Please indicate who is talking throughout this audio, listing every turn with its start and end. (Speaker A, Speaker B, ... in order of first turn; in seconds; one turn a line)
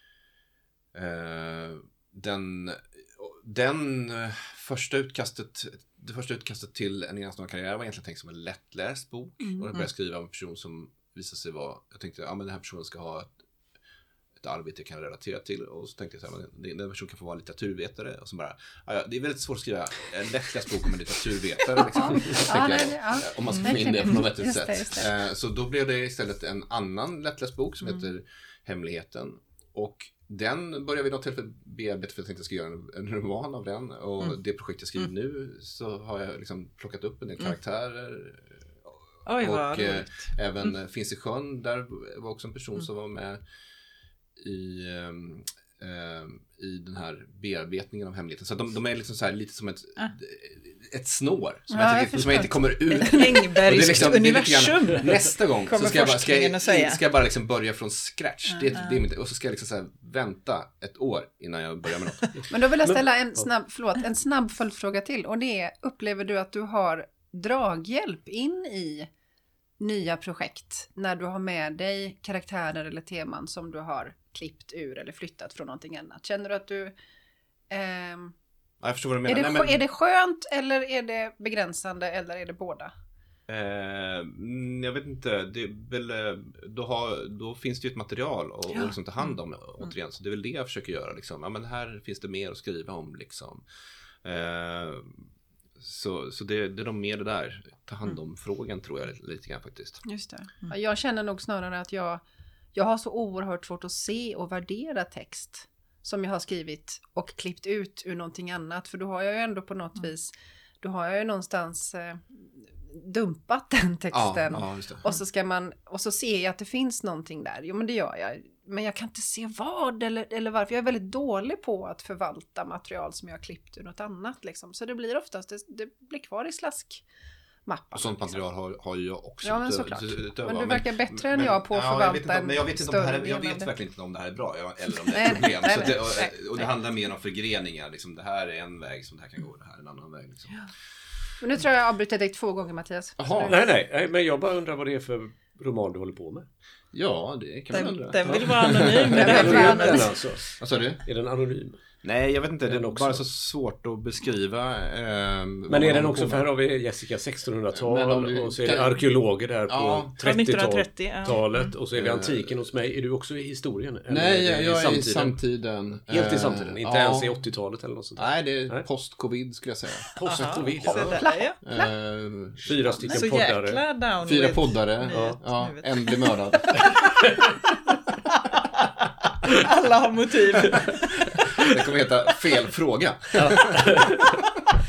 Speaker A: 0.9-13.3
Speaker A: 14.4-43.4
Speaker B: 21.9-25.1
Speaker C: 23.5-23.8
Speaker C: 39.2-40.7
Speaker A: 44.4-62.4
Speaker B: 51.7-53.2
Speaker C: 53.0-57.0
Speaker C: 58.7-59.0
Speaker B: 62.5-69.1
Speaker B: 69.8-76.9
Speaker B: 77.7-78.3
Speaker A: 78.8-79.8
Speaker B: 79.3-82.9
Speaker A: 83.5-93.6
Speaker A: 94.2-100.0
Speaker B: 100.0-102.2
Speaker B: 102.7-127.0
Speaker A: 114.1-115.0
Speaker B: 127.7-128.4
Speaker A: 127.9-140.7
Speaker B: 129.4-133.7
Speaker B: 135.1-136.7
Speaker B: 141.4-143.6
Speaker A: 143.2-143.6
Speaker D: 143.4-146.4
Speaker A: 146.9-149.8
Speaker C: 147.7-150.1
Speaker D: 149.1-151.8
Speaker B: 149.1-150.1
Speaker A: 150.5-151.0
Speaker A: 152.0-156.4
Speaker D: 152.7-153.2
Speaker D: 155.7-165.4
Speaker A: 157.7-159.0
Speaker A: 159.7-160.1
Speaker C: 160.2-161.7
Speaker A: 161.9-162.5
Speaker A: 164.1-167.4
Speaker D: 166.1-168.8
Speaker A: 168.2-170.1
Speaker D: 170.1-171.2
Speaker C: 170.2-171.6
Speaker A: 171.6-173.0
Speaker D: 172.6-173.8
Speaker C: 173.0-177.3
Speaker A: 174.2-177.1
Speaker D: 175.1-175.4
Speaker C: 178.1-178.9
Speaker C: 179.4-181.7
Speaker A: 181.6-184.1
Speaker D: 183.4-184.3